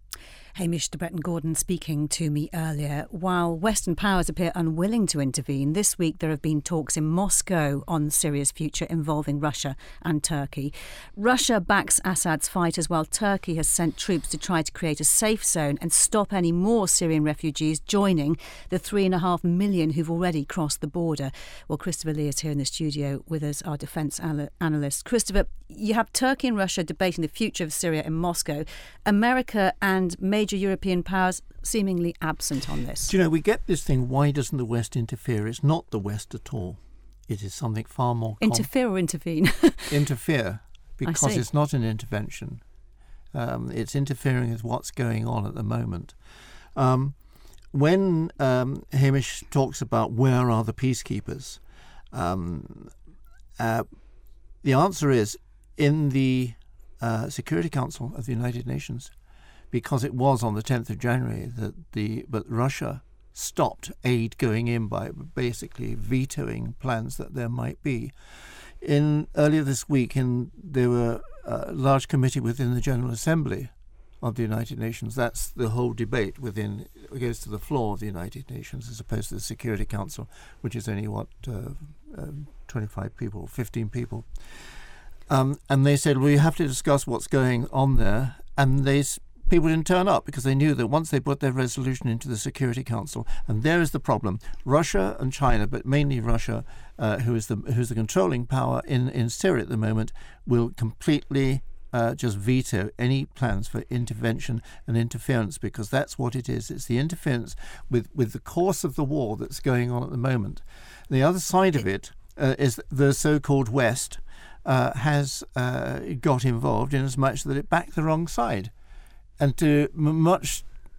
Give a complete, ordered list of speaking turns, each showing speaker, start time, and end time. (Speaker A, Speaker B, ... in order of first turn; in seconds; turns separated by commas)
Speaker A: 0.6-33.1, Speaker B: 33.0-38.7, Speaker A: 38.4-39.9, Speaker B: 39.9-42.6, Speaker A: 41.0-41.4, Speaker B: 43.3-46.2, Speaker B: 46.8-47.1, Speaker B: 47.7-51.6, Speaker B: 52.1-52.9, Speaker B: 53.6-53.9, Speaker B: 54.6-59.1, Speaker B: 59.7-68.1, Speaker B: 68.8-84.3, Speaker B: 85.3-118.7, Speaker B: 119.4-120.7